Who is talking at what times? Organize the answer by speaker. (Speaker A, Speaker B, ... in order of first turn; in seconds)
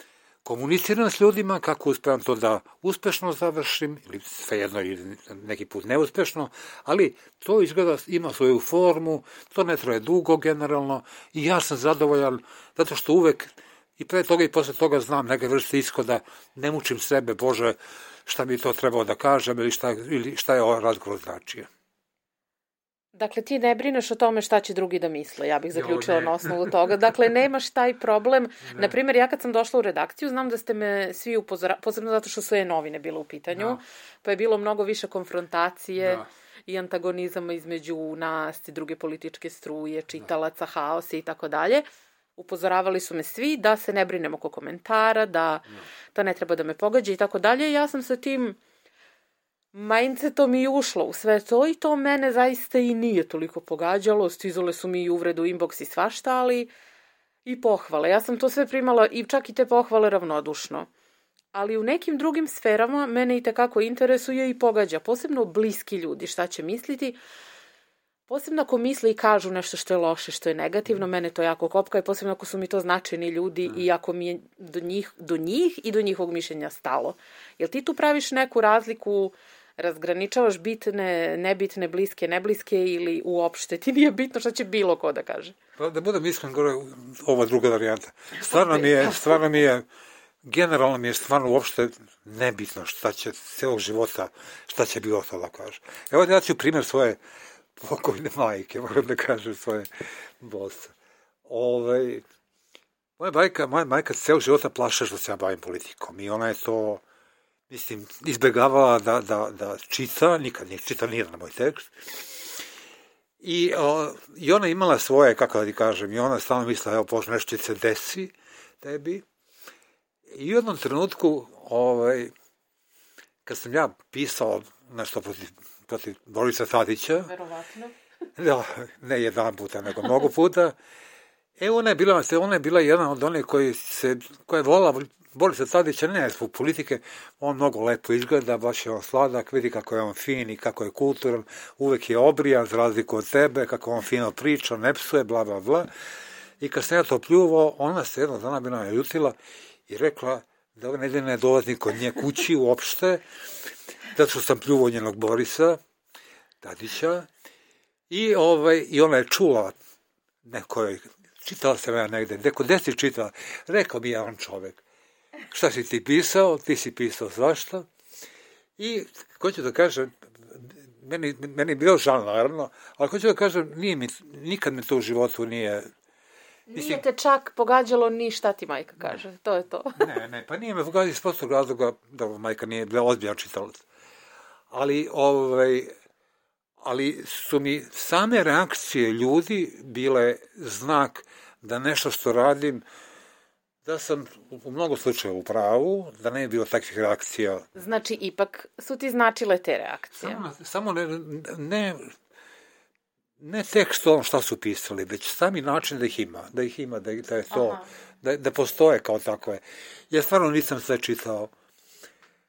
Speaker A: 0.4-21.7, 25.7-26.7, 33.5-33.8, 36.0-36.3, 85.8-89.8, 90.4-97.2, 97.8-99.9, 100.4-100.9, 101.5-102.2, 103.2-107.0, 107.7-112.5, 113.4-119.2, 120.3-122.3, 123.4-127.3, 128.3-130.8, 131.6-145.9, 146.6-149.4, 149.9-153.2, 154.1-155.8, 156.6-157.3, 158.1-159.8, 160.4-164.8, 165.5-167.9, 168.8-175.9, 176.7-177.0, 180.0-183.8, 184.7-185.9, 186.8-192.8, 193.8-197.7, 200.2-202.1, 203.4-211.5
Speaker B: 23.1-41.8, 42.4-48.6, 49.7-56.7, 57.5-60.9, 61.5-67.2, 68.3-85.5, 88.4-89.2, 127.2-127.9, 176.7-180.1, 197.8-200.4, 207.5-207.8